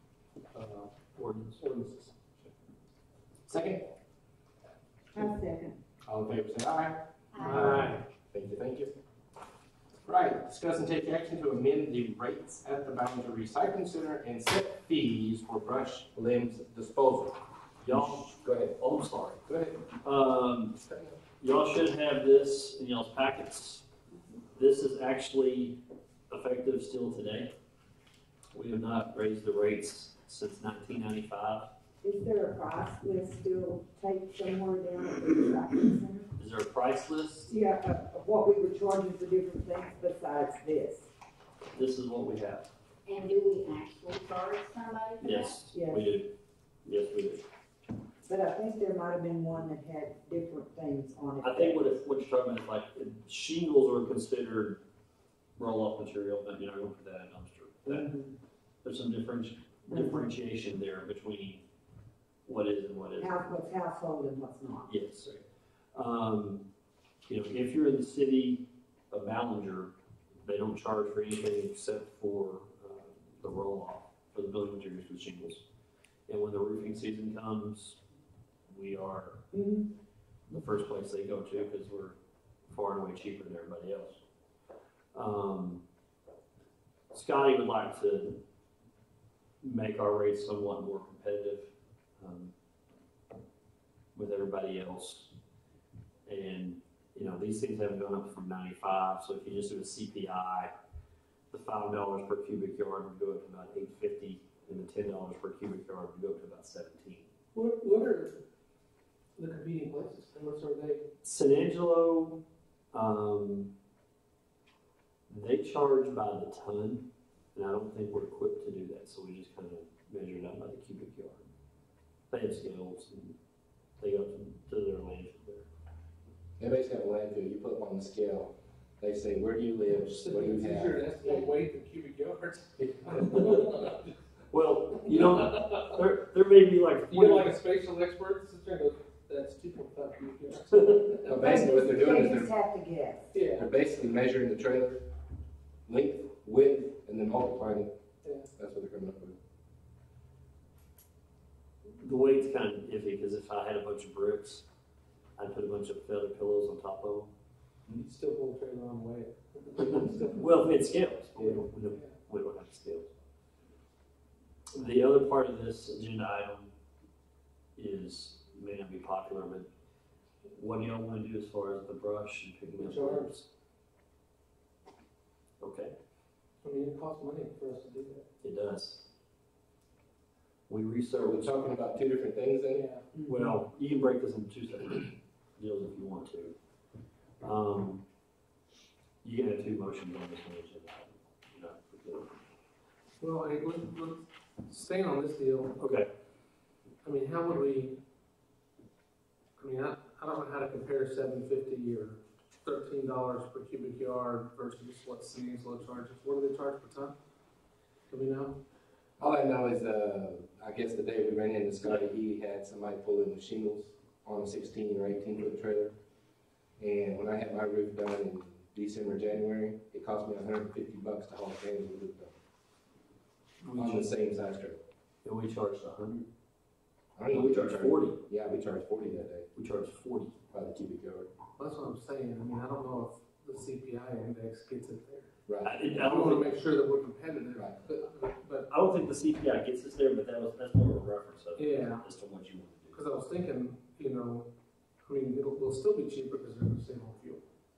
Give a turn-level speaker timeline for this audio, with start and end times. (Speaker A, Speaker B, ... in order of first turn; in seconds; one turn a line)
Speaker A: 0.5-2.5
Speaker B: 1.2-1.6
Speaker C: 3.5-3.9
Speaker D: 5.1-5.8
Speaker C: 6.0-8.9
Speaker A: 7.5-8.0
Speaker C: 10.1-17.4
Speaker B: 17.8-19.4
Speaker C: 17.9-18.8
Speaker C: 19.4-19.9
Speaker B: 20.0-20.8
Speaker C: 20.8-21.1
Speaker B: 21.4-23.9
Speaker B: 24.5-27.5
Speaker B: 28.5-31.7
Speaker D: 32.0-36.3
Speaker B: 36.4-37.5
Speaker D: 37.5-41.1
Speaker B: 41.7-42.7
Speaker E: 43.0-45.6
Speaker B: 45.2-46.3
Speaker D: 45.7-46.1
Speaker B: 46.8-47.4
Speaker D: 48.2-51.9
Speaker B: 51.4-54.8
Speaker B: 55.6-58.1
Speaker D: 57.9-58.3
Speaker B: 58.8-61.6
Speaker D: 59.9-60.3
Speaker B: 62.5-63.5
Speaker D: 63.2-64.9
Speaker B: 64.9-65.4
Speaker B: 65.9-66.7
Speaker B: 67.3-75.6
Speaker B: 76.3-78.0
Speaker B: 78.7-79.4
Speaker D: 79.5-79.9
Speaker B: 80.5-82.2
Speaker B: 82.7-84.2
Speaker B: 85.1-85.8
Speaker B: 87.1-88.4
Speaker B: 89.6-92.5
Speaker B: 94.1-95.3
Speaker B: 96.2-100.7
Speaker B: 101.5-107.2
Speaker A: 107.5-108.4
Speaker A: 109.4-111.1
Speaker B: 111.2-113.7
Speaker B: 115.3-121.5
Speaker B: 122.3-123.4
Speaker B: 124.0-125.7
Speaker C: 126.6-131.1
Speaker A: 129.9-134.1
Speaker B: 133.1-133.8
Speaker B: 134.5-137.5
Speaker A: 135.1-135.8
Speaker A: 137.1-141.4
Speaker C: 141.2-142.5
Speaker D: 141.3-143.3
Speaker A: 143.3-143.7
Speaker C: 143.6-145.0
Speaker C: 145.9-147.9
Speaker A: 148.2-148.5
Speaker C: 148.6-149.4
Speaker B: 152.0-154.7
Speaker B: 155.4-157.3
Speaker A: 157.9-160.6
Speaker B: 159.8-163.1
Speaker A: 161.4-162.1
Speaker B: 164.7-166.7
Speaker B: 167.8-169.7
Speaker B: 170.5-173.5
Speaker A: 172.8-173.3
Speaker B: 175.6-175.9
Speaker A: 176.6-178.3
Speaker B: 178.4-179.0
Speaker B: 180.7-181.5
Speaker C: 181.2-182.8
Speaker A: 182.7-183.0
Speaker D: 183.1-183.6
Speaker B: 183.3-186.6
Speaker B: 187.4-188.0
Speaker B: 189.2-192.4
Speaker A: 193.2-195.9
Speaker B: 195.8-196.1
Speaker A: 197.0-198.0
Speaker A: 199.6-207.2
Speaker A: 208.1-208.6
Speaker C: 209.2-215.9
Speaker C: 216.8-222.3
Speaker B: 223.6-224.1
Speaker C: 223.7-224.8
Speaker B: 225.2-226.3
Speaker C: 227.2-229.5
Speaker B: 227.3-228.2
Speaker B: 229.5-230.4
Speaker C: 230.5-231.3
Speaker A: 231.6-235.3
Speaker C: 235.5-235.8
Speaker B: 235.6-236.6
Speaker A: 235.9-238.7
Speaker C: 237.5-237.9
Speaker B: 238.7-243.0
Speaker A: 241.6-242.0
Speaker A: 242.9-244.5
Speaker A: 245.0-247.4